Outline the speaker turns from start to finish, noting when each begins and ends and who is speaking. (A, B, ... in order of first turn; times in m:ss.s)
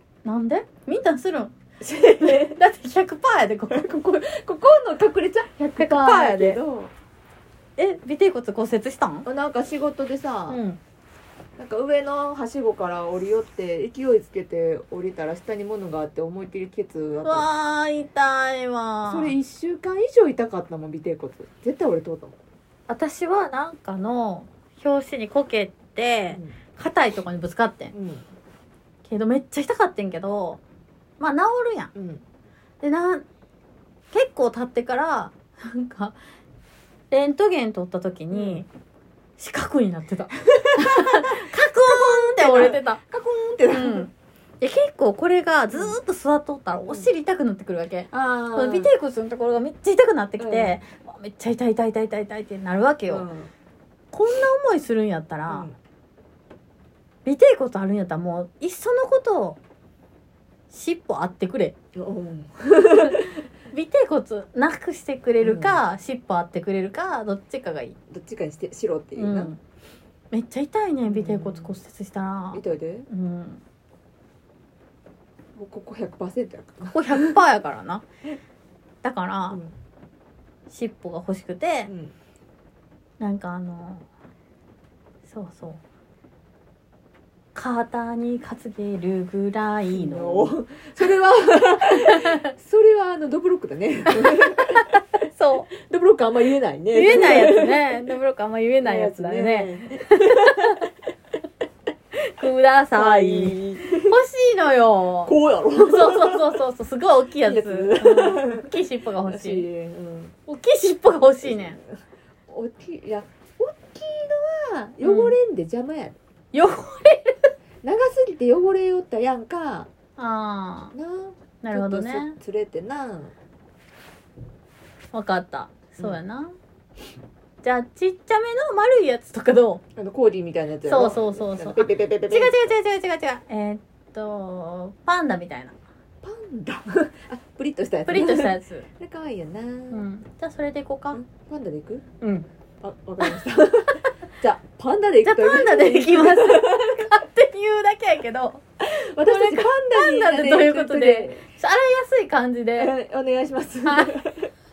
0:00.2-0:01.5 A
0:01.8-0:02.6 B
0:02.2-0:04.0 A
0:03.7-0:06.9 B
0:05.8-0:06.6 A
0:07.8-0:09.3 A
0:09.2-0:10.6 B
0:10.5-0:10.8 A
0:11.6-0:17.5 B
0:17.2-0:19.3 A
0:19.0-0:22.4 B
0:22.9-0:27.9 A
0:26.3-0:26.6 B
0:27.9-0:28.2 B
0:29.0-0:30.6 A
0:31.2-0:31.9 A
0:31.9-0:32.2 B
0:32.8-0:33.2 A
0:34.1-0:36.2 A
0:37.1-0:38.7 A
0:38.3-0:38.6 B
0:39.4-0:43.0 A
0:40.6-0:44.1 B
0:43.7-0:53.3 A
0:45.7-0:46.0 B
0:46.9-0:47.1 B
0:48.1-0:48.9 B
0:50.4-0:50.8 B
0:53.1-0:53.5 B
0:54.1-0:55.7 A
0:55.5-0:55.8 B
0:57.2-0:59.6 A
1:00.7-1:01.7 A
1:01.9-1:03.4 B
1:02.9-1:08.0 A
1:05.4-1:05.8 B
1:08.1-1:09.5 B
1:09.2-1:09.6 A
1:10.3-1:13.6 A
1:11.0-1:11.8 B
1:12.5-1:13.1 B
1:15.5-1:17.4 B
1:16.9-1:18.0 A
1:19.0-1:19.6 A
1:20.7-1:21.9 A
1:21.9-1:22.1 B
1:23.2-1:24.0 A
1:25.2-1:25.8 A
1:27.5-1:30.5 A
1:29.9-1:35.0 B
1:32.0-1:32.4 A
1:34.3-1:35.7 A
1:35.7-1:38.0 B
1:36.9-1:40.9 A
1:38.8-1:40.9 B
1:42.2-1:49.6 A
1:42.9-1:44.2 B
1:45.2-1:46.6 B
1:47.4-1:50.3 B
1:50.5-1:51.8 A
1:51.4-1:51.9 B
1:52.5-1:56.2 B
1:55.0-1:55.4 A
1:56.5-1:57.5 A
1:57.8-1:59.9 B
2:00.2-2:00.9 A
2:00.9-2:03.3 B
2:01.6-2:02.4 A
2:05.1-2:06.5 A
2:07.6-2:09.8 A
2:10.0-2:12.6 B
2:10.8-2:15.8 A
2:16.2-2:20.0 B
2:18.0-2:18.8 A
2:19.9-2:21.2 A
2:21.1-2:22.0 B
2:22.2-2:22.5 A
2:22.8-2:27.1 B
2:25.2-2:28.6 A
2:28.8-2:31.4 B
2:29.2-2:32.9 A
2:32.8-2:34.5 B
2:33.8-2:34.1 A